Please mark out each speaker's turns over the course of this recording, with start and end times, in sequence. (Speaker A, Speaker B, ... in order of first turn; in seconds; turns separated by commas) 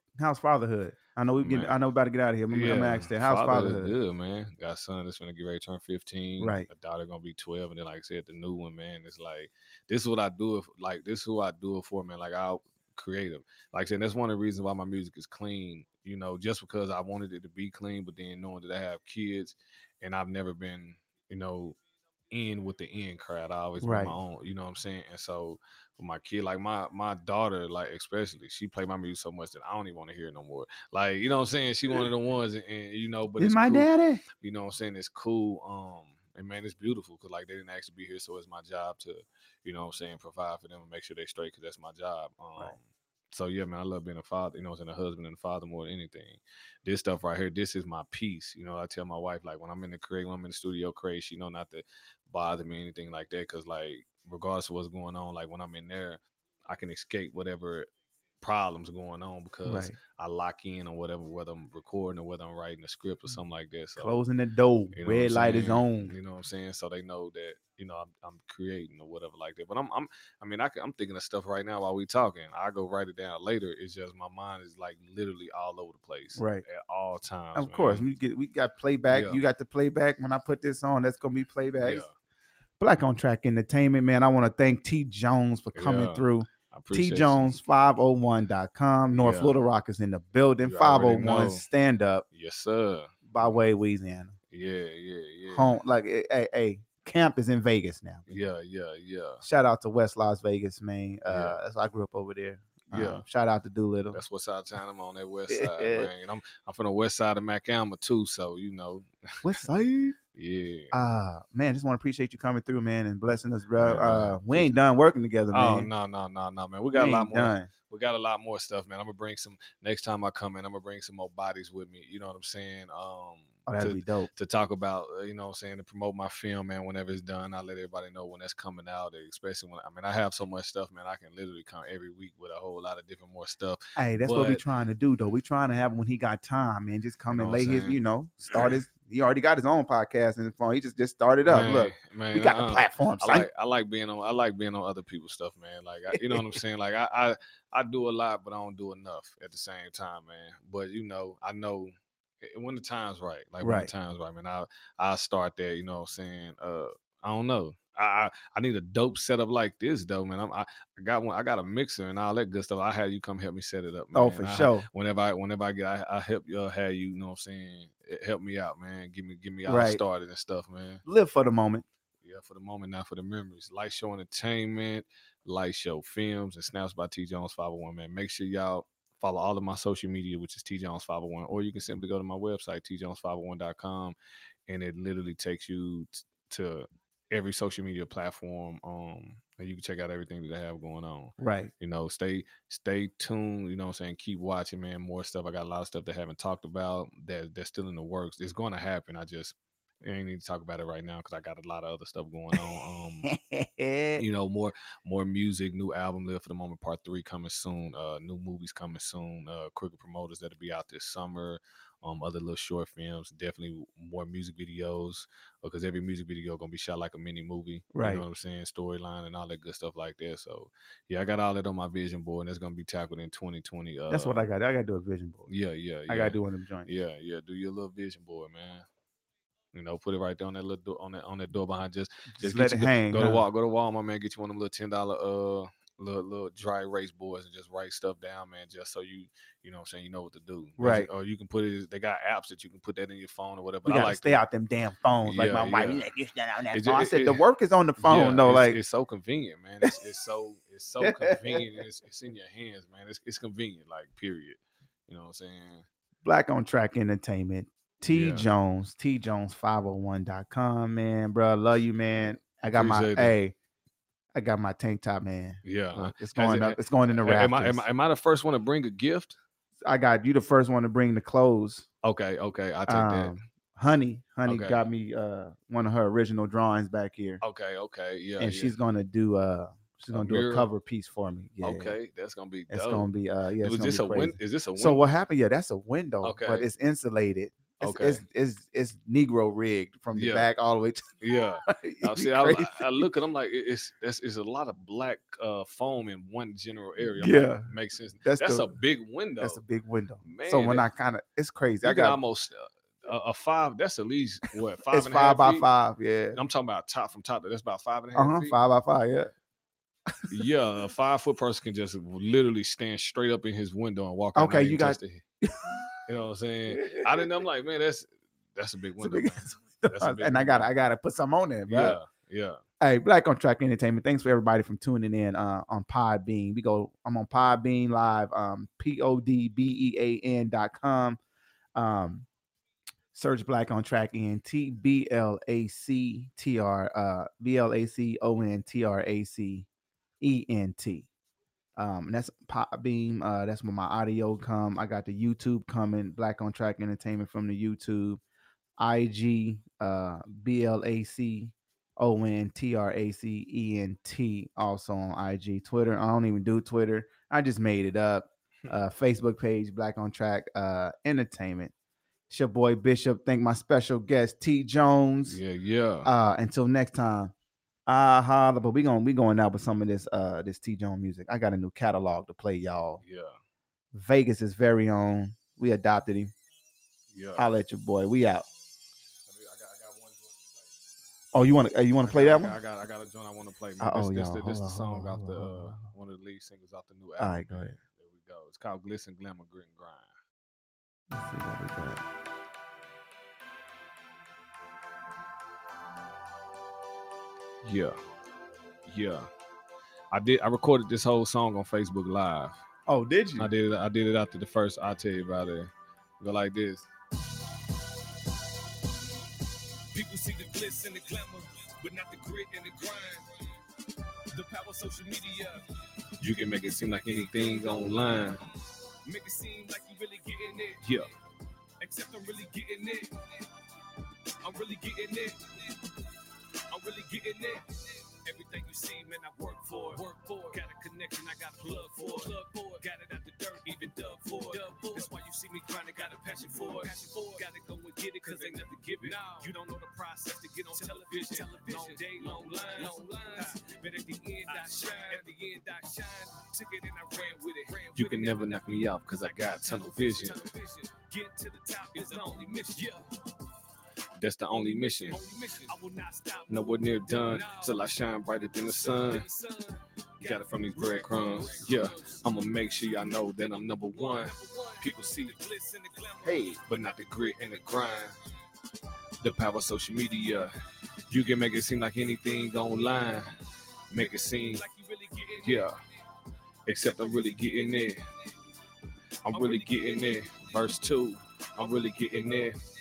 Speaker A: 0.2-3.9, Speaker B: 1.4-1.8, Speaker B: 2.5-21.8, Speaker A: 6.4-6.7, Speaker B: 22.3-33.9, Speaker A: 23.8-24.1, Speaker A: 33.4-34.2, Speaker B: 34.4-57.9, Speaker B: 58.4-64.2, Speaker A: 59.6-60.0, Speaker A: 64.0-66.1, Speaker B: 64.9-78.0, Speaker A: 76.4-76.6, Speaker A: 77.5-82.0, Speaker B: 79.1-79.4, Speaker B: 81.8-82.1, Speaker A: 82.8-92.2, Speaker B: 85.7-87.6, Speaker B: 89.2-89.5, Speaker B: 90.6-91.7, Speaker B: 92.3-93.6, Speaker A: 93.3-94.3, Speaker B: 94.5-95.8, Speaker A: 95.5-98.2, Speaker B: 98.3-99.4, Speaker A: 99.4-104.2, Speaker B: 101.3-101.6, Speaker B: 102.9-103.2, Speaker B: 104.1-109.4, Speaker A: 105.5-106.1, Speaker A: 109.4-110.2, Speaker B: 110.3-111.0, Speaker A: 110.9-115.9, Speaker B: 113.8-114.7, Speaker B: 115.5-134.6, Speaker A: 116.9-117.7, Speaker A: 123.7-124.3, Speaker A: 133.9-143.5, Speaker B: 137.3-138.0, Speaker B: 141.5-171.0, Speaker A: 146.1-146.4, Speaker A: 153.6-153.9, Speaker A: 164.1-164.8, Speaker A: 169.7-170.0, Speaker A: 171.0-171.8, Speaker B: 172.2-184.2, Speaker B: 184.7-203.3, Speaker A: 191.4-191.7, Speaker A: 203.2-204.2, Speaker B: 204.2-224.4, Speaker A: 217.9-218.2, Speaker A: 224.1-225.5, Speaker B: 225.5-228.8, Speaker A: 226.1-226.9, Speaker B: 229.7-244.4, Speaker A: 232.3-233.4, Speaker A: 240.8-241.1, Speaker A: 243.8-248.8, Speaker B: 245.2-246.1, Speaker B: 246.7-247.4, Speaker B: 248.0-255.8, Speaker A: 251.0-251.6, Speaker A: 256.2-263.5, Speaker B: 258.1-258.5, Speaker B: 262.7-263.4, Speaker A: 264.3-267.8, Speaker B: 265.6-269.4, Speaker A: 269.8-271.9, Speaker B: 272.0-273.3, Speaker A: 272.9-277.4, Speaker B: 274.4-274.8, Speaker B: 277.4-278.8, Speaker A: 278.4-281.9, Speaker B: 280.1-280.7, Speaker B: 281.6-283.1, Speaker A: 282.7-291.1, Speaker B: 283.6-285.0, Speaker B: 286.2-286.7, Speaker B: 287.8-288.2, Speaker B: 290.1-290.5, Speaker B: 291.2-299.6, Speaker A: 291.7-293.0, Speaker A: 297.1-297.7, Speaker A: 298.2-298.8, Speaker A: 299.4-302.2, Speaker B: 300.2-300.9, Speaker B: 301.8-305.7, Speaker A: 304.9-306.4, Speaker B: 306.3-308.6, Speaker A: 308.1-309.3, Speaker B: 310.3-315.2, Speaker A: 314.3-315.8, Speaker B: 316.1-320.7, Speaker A: 316.7-317.3, Speaker A: 319.0-322.0, Speaker B: 321.7-322.6, Speaker A: 322.8-331.2, Speaker A: 331.7-332.3, Speaker A: 333.1-339.7, Speaker A: 340.2-341.1, Speaker A: 341.8-348.2, Speaker A: 348.8-361.7, Speaker A: 362.3-365.4, Speaker B: 365.3-366.1, Speaker A: 366.0-367.3, Speaker A: 367.9-373.0, Speaker B: 373.0-373.3, Speaker A: 373.9-376.3, Speaker B: 377.1-377.4, Speaker A: 377.4-378.5, Speaker B: 379.3-380.7, Speaker A: 381.3-382.6, Speaker B: 382.0-390.1, Speaker A: 383.8-385.8, Speaker A: 387.2-387.8, Speaker A: 391.1-392.0, Speaker B: 397.6-397.9, Speaker B: 398.9-399.3, Speaker B: 400.1-402.6, Speaker A: 402.9-403.5, Speaker B: 403.4-406.9, Speaker C: 409.9-413.3, Speaker C: 414.3-415.6, Speaker B: 416.2-418.4, Speaker C: 417.3-418.4, Speaker C: 419.0-420.8, Speaker B: 420.8-421.1, Speaker C: 421.8-423.4, Speaker C: 424.4-425.8, Speaker C: 426.7-448.6, Speaker B: 431.8-432.3, Speaker B: 436.6-437.0, Speaker B: 438.4-439.1, Speaker B: 440.9-443.5, Speaker B: 444.5-445.4, Speaker B: 447.9-450.5, Speaker C: 449.2-453.1, Speaker B: 454.2-455.2, Speaker C: 455.1-458.0, Speaker B: 456.5-459.2, Speaker C: 458.5-462.3, Speaker B: 460.2-465.3, Speaker C: 463.6-466.6, Speaker A: 466.2-466.6, Speaker B: 466.6-468.1, Speaker B: 469.2-470.5, Speaker B: 471.1-473.3, Speaker B: 473.9-474.6, Speaker C: 474.0-475.7, Speaker B: 475.4-475.7, Speaker B: 476.7-478.0, Speaker C: 476.9-477.9, Speaker B: 479.2-482.6, Speaker C: 479.3-480.5, Speaker C: 481.6-482.6